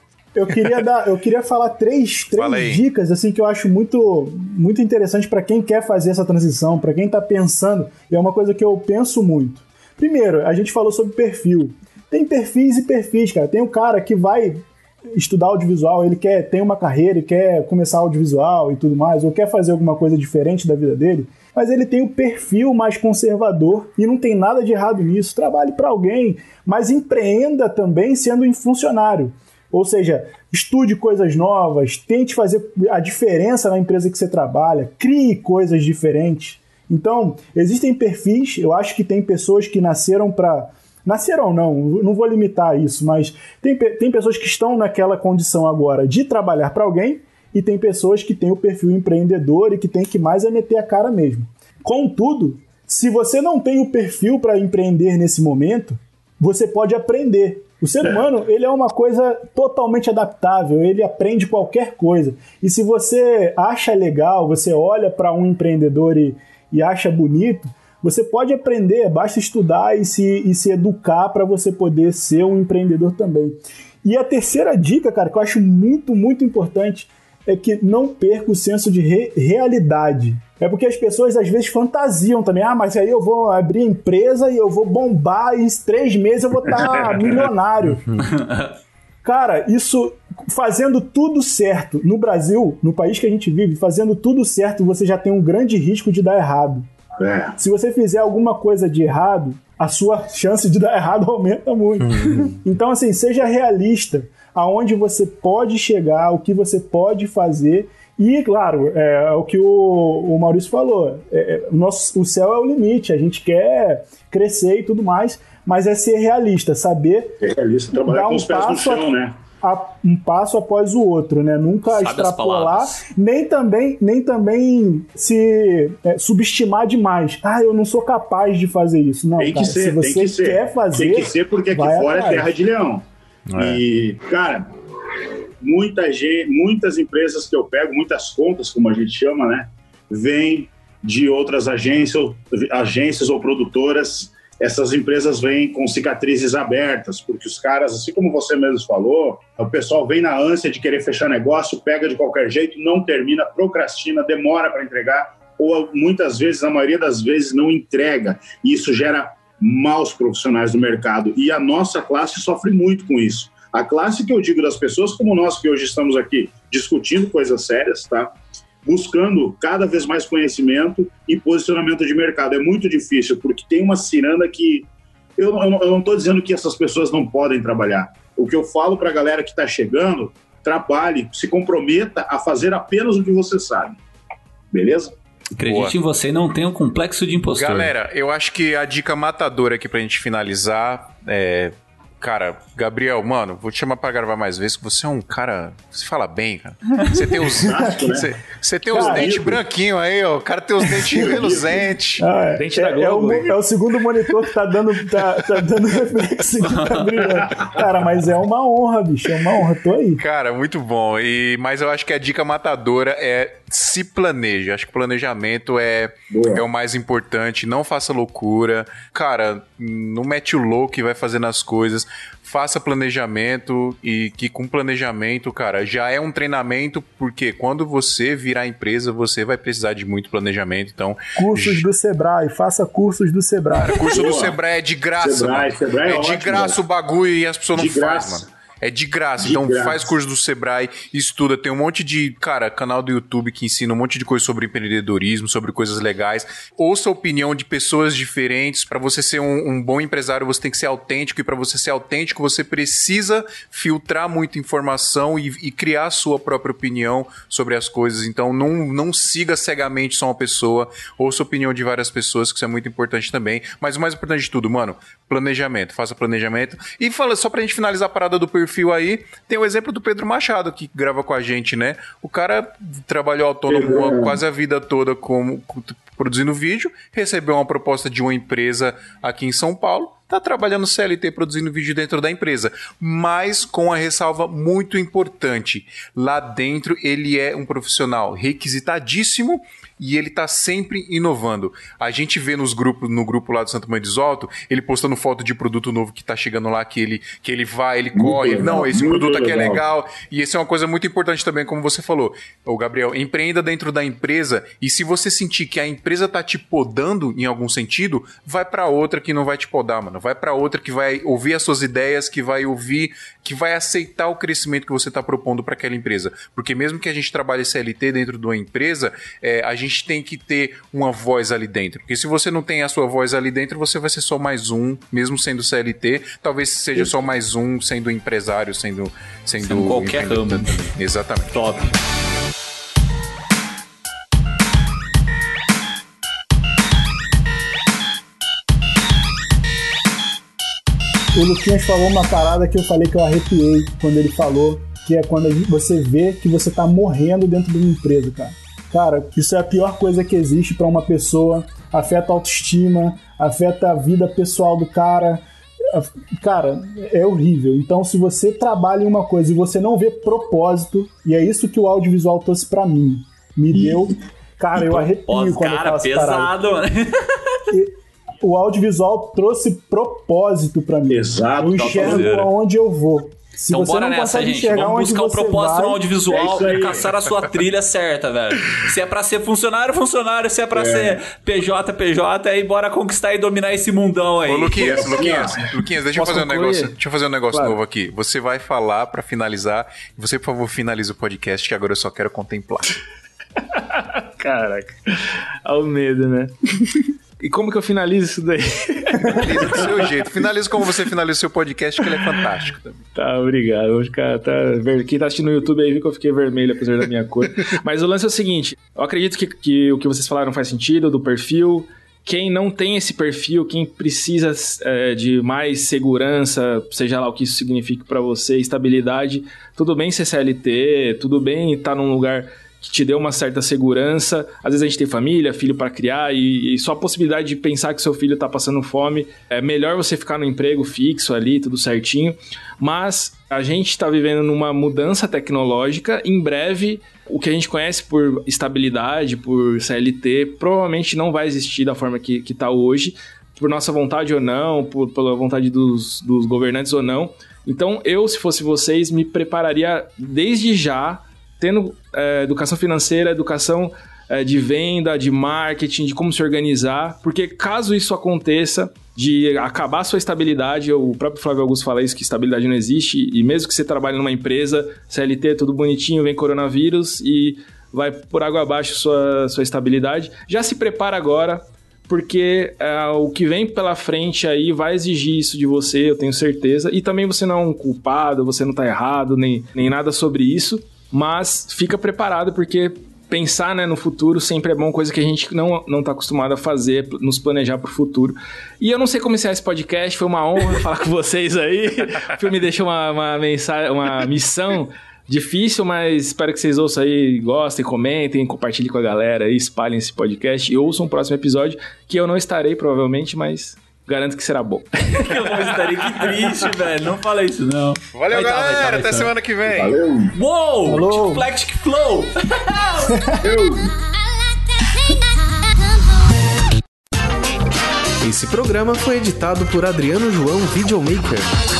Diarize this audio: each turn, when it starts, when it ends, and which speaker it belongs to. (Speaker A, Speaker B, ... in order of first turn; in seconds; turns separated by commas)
Speaker A: 0.3-88.0, Speaker B: 0.5-0.8, Speaker B: 2.4-2.8, Speaker C: 86.7-87.4, Speaker D: 88.2-88.8, Speaker A: 89.2-96.9, Speaker C: 97.2-97.6, Speaker A: 97.6-117.4, Speaker B: 102.0-102.5, Speaker C: 117.4-119.4, Speaker A: 118.1-119.1, Speaker A: 119.6-132.5, Speaker D: 121.9-123.0, Speaker C: 129.4-133.1, Speaker B: 133.5-133.8, Speaker C: 133.6-134.7, Speaker C: 135.6-168.3, Speaker C: 168.8-184.0, Speaker C: 184.7-185.2, Speaker D: 185.6-187.9, Speaker B: 185.7-186.0, Speaker B: 187.5-202.2, Speaker D: 196.9-197.4, Speaker C: 197.5-198.3, Speaker C: 198.9-199.6, Speaker A: 198.9-199.3, Speaker A: 200.8-201.5, Speaker C: 201.1-201.9, Speaker A: 202.2-210.2, Speaker E: 202.6-203.6, Speaker D: 206.6-207.4, Speaker B: 210.2-231.8, Speaker C: 216.3-216.7, Speaker A: 231.4-234.2, Speaker B: 233.7-331.5, Speaker C: 234.1-234.6, Speaker C: 235.2-236.8, Speaker C: 237.8-238.5, Speaker C: 239.4-240.1, Speaker C: 273.7-274.4, Speaker C: 298.1-299.8, Speaker D: 329.6-330.9, Speaker D: 331.5-331.9, Speaker A: 341.3-366.5, Speaker C: 363.7-364.2, Speaker D: 364.8-367.6, Speaker A: 367.7-376.0, Speaker C: 371.1-372.3, Speaker D: 371.8-372.5, Speaker D: 373.7-385.3, Speaker C: 376.3-377.1, Speaker C: 380.7-381.2, Speaker B: 384.5-392.9, Speaker C: 384.8-385.6, Speaker E: 386.1-387.0, Speaker E: 387.5-387.8, Speaker E: 393.6-400.9, Speaker B: 399.2-403.0, Speaker E: 402.0-402.6, Speaker E: 403.1-506.4, Speaker D: 505.1-509.3, Speaker B: 508.1-510.0, Speaker C: 509.7-510.4, Speaker D: 510.4-513.2, Speaker A: 510.9-511.5, Speaker C: 513.4-513.9, Speaker F: 518.2-521.5